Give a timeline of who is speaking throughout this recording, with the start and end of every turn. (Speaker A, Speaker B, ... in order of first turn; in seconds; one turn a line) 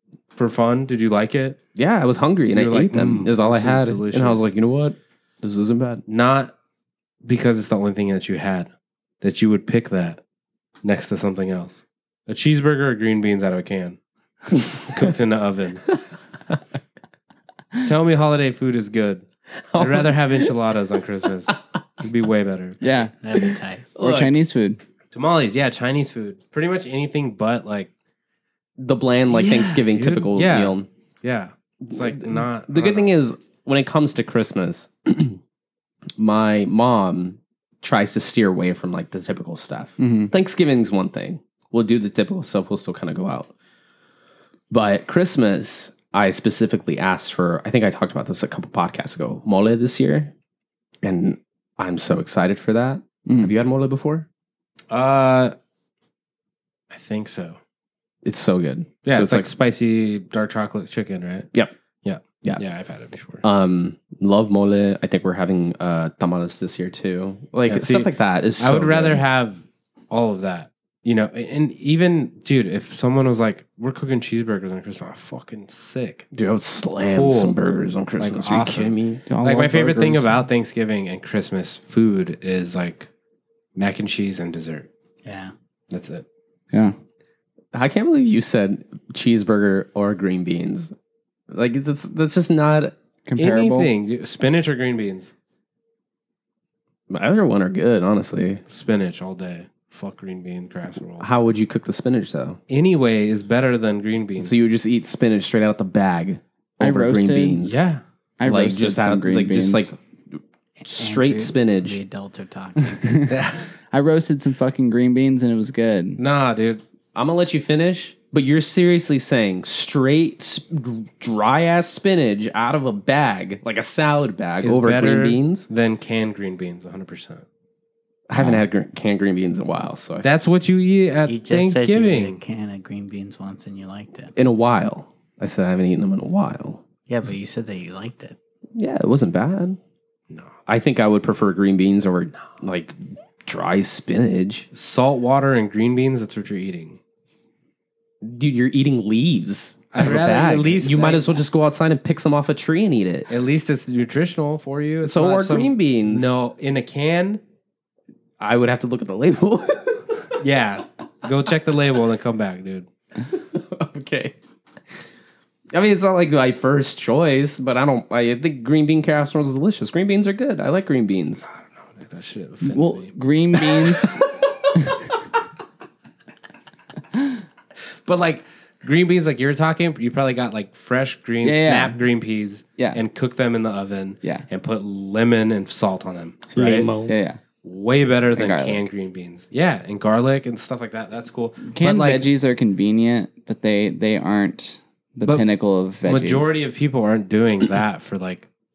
Speaker A: 0.3-1.6
Speaker B: 1.8-6.0
Speaker A: 2.5-4.5
Speaker A: 6.1-6.5
Speaker A: 7.2-8.7
Speaker A: 9.2-10.2
Speaker A: 10.8-14.0
Speaker A: 14.8-15.9
Speaker A: 17.8-19.2
Speaker B: 19.6-20.5
Speaker A: 19.8-22.8
Speaker C: 22.8-23.1
Speaker D: 23.2-23.8
Speaker B: 23.4-24.3
Speaker C: 24.0-24.8
Speaker A: 25.1-27.9
Speaker B: 28.8-30.9
Speaker A: 29.3-33.1
Speaker B: 31.8-35.4
Speaker B: 36.2-43.5
Speaker C: 40.0-40.3
Speaker B: 44.7-50.3
Speaker B: 51.0-54.2
Speaker C: 53.2-53.5
Speaker A: 54.9-55.5
Speaker A: 56.9-57.6
Speaker B: 58.2-59.5
Speaker A: 59.0-61.5
Speaker A: 62.0-63.4
Speaker B: 63.4-69.2
Speaker A: 67.7-76.3
Speaker B: 76.3-79.2
Speaker A: 77.1-77.5
Speaker A: 78.2-83.1
Speaker C: 79.2-80.4
Speaker A: 83.8-84.9
Speaker D: 85.2-85.5
Speaker A: 85.9-86.2
Speaker B: 87.7-90.9
Speaker B: 91.5-92.9
Speaker C: 93.2-93.9
Speaker A: 93.4-95.3
Speaker B: 97.1-98.6
Speaker A: 98.7-101.3
Speaker B: 101.2-102.6
Speaker A: 102.7-104.6
Speaker B: 104.4-107.8
Speaker C: 106.8-107.6
Speaker A: 107.6-108.0
Speaker C: 108.4-109.9
Speaker B: 108.4-112.0
Speaker D: 110.8-113.0
Speaker C: 112.9-116.2
Speaker A: 113.3-113.7
Speaker A: 116.2-116.8
Speaker B: 117.1-125.7
Speaker A: 124.6-127.4
Speaker B: 128.3-130.3
Speaker C: 128.3-128.6
Speaker A: 130.2-132.4
Speaker D: 131.2-134.3
Speaker B: 134.3-136.8
Speaker D: 137.1-138.4
Speaker B: 138.8-139.8
Speaker B: 140.7-144.7
Speaker A: 144.7-147.0
Speaker B: 148.2-153.3
Speaker A: 149.9-151.4
Speaker A: 153.3-157.4
Speaker B: 155.0-156.3
Speaker B: 158.4-160.3
Speaker A: 160.4-162.9
Speaker B: 163.2-164.3
Speaker B: 165.7-171.5
Speaker A: 171.5-173.1
Speaker C: 172.6-174.2
Speaker B: 173.6-174.7
Speaker A: 178.0-186.9
Speaker C: 181.4-181.9
Speaker B: 186.5-187.1
Speaker C: 187.0-187.4
Speaker A: 187.6-192.2
Speaker C: 188.3-188.8
Speaker C: 191.7-196.5
Speaker A: 196.0-198.5